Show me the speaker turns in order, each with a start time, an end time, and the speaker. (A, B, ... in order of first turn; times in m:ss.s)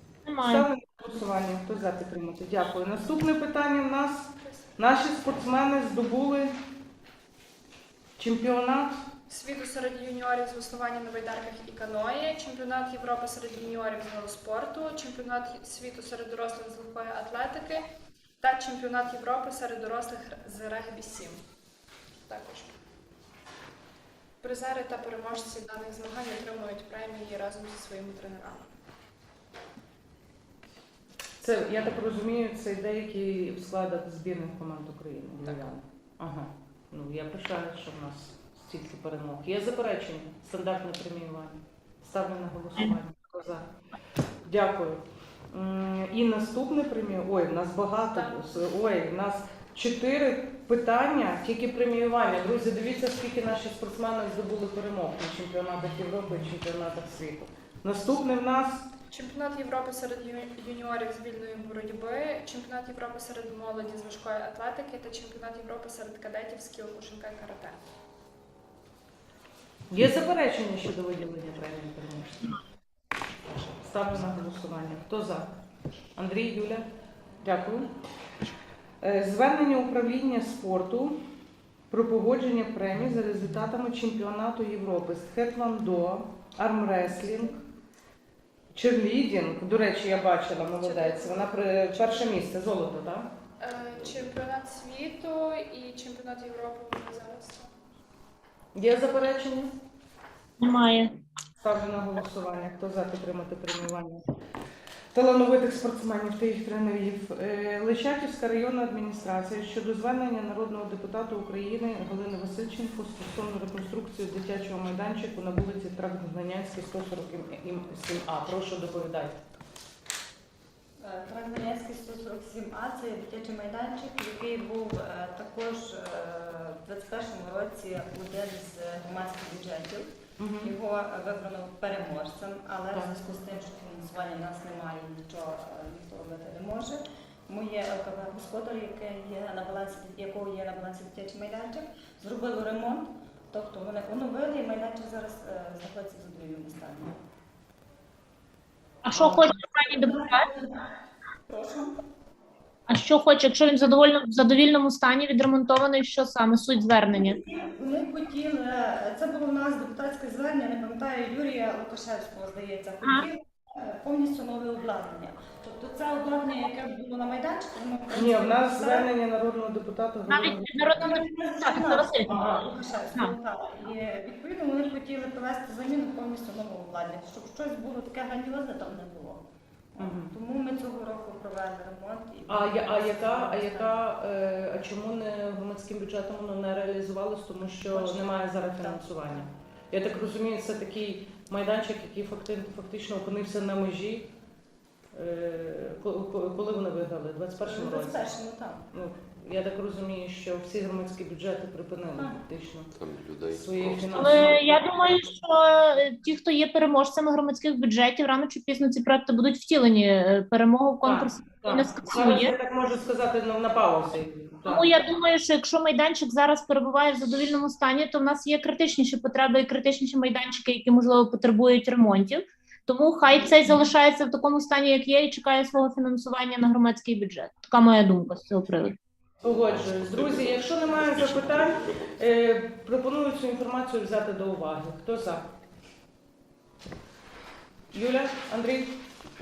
0:00.3-0:00.7 A
0:00.4-0:06.5 B
0:04.4-0:04.7 C
0:08.2-0:09.0 B
0:09.3-0:17.8 C
0:18.4-0:21.4 C
0:22.3-0:22.7 C
0:24.4-0:28.7 C
0:31.4-0:43.7 B
0:35.4-0:35.7 C
0:44.5-0:58.9 B
0:48.1-0:48.5 C
0:59.1-1:07.8 C
1:09.9-1:12.6 B
1:13.8-1:15.5 B
1:16.2-1:16.9 B
1:17.4-1:17.9 B
1:19.0-1:21.2 B
1:21.9-1:27.6 B
1:27.1-1:27.6 C
1:28.7-1:33.3 B
1:30.8-1:32.5 C
1:33.6-1:37.7 C
1:38.8-1:39.7 B
1:40.6-1:41.1 A
1:41.6-1:44.2 B
1:45.1-1:59.4 B
2:01.0-2:27.2 D
2:10.4-2:10.7 B
2:29.0-2:30.5 A
2:29.1-2:30.9 D
2:31.5-2:31.9 D
2:32.9-2:37.4 A
2:37.1-2:49.1 D
2:43.0-2:43.3 A
2:48.1-2:51.1 B
2:50.3-2:52.5 A
2:50.9-2:59.4 D
2:52.3-2:52.7 B
3:00.0-3:04.0 D
3:00.0-3:00.3 B
3:02.5-3:14.3 B
3:07.9-3:09.0 D
3:15.1-3:18.2 B
3:17.6-3:18.8 D
3:18.9-3:22.9 B
3:22.9-3:24.7 E
3:23.5-3:24.8 B
3:24.1-3:32.6 A
3:31.0-3:35.1 B
3:34.7-3:49.0 A
3:49.4-3:55.5 B
3:49.4-3:52.2 E
3:57.9-3:59.0 B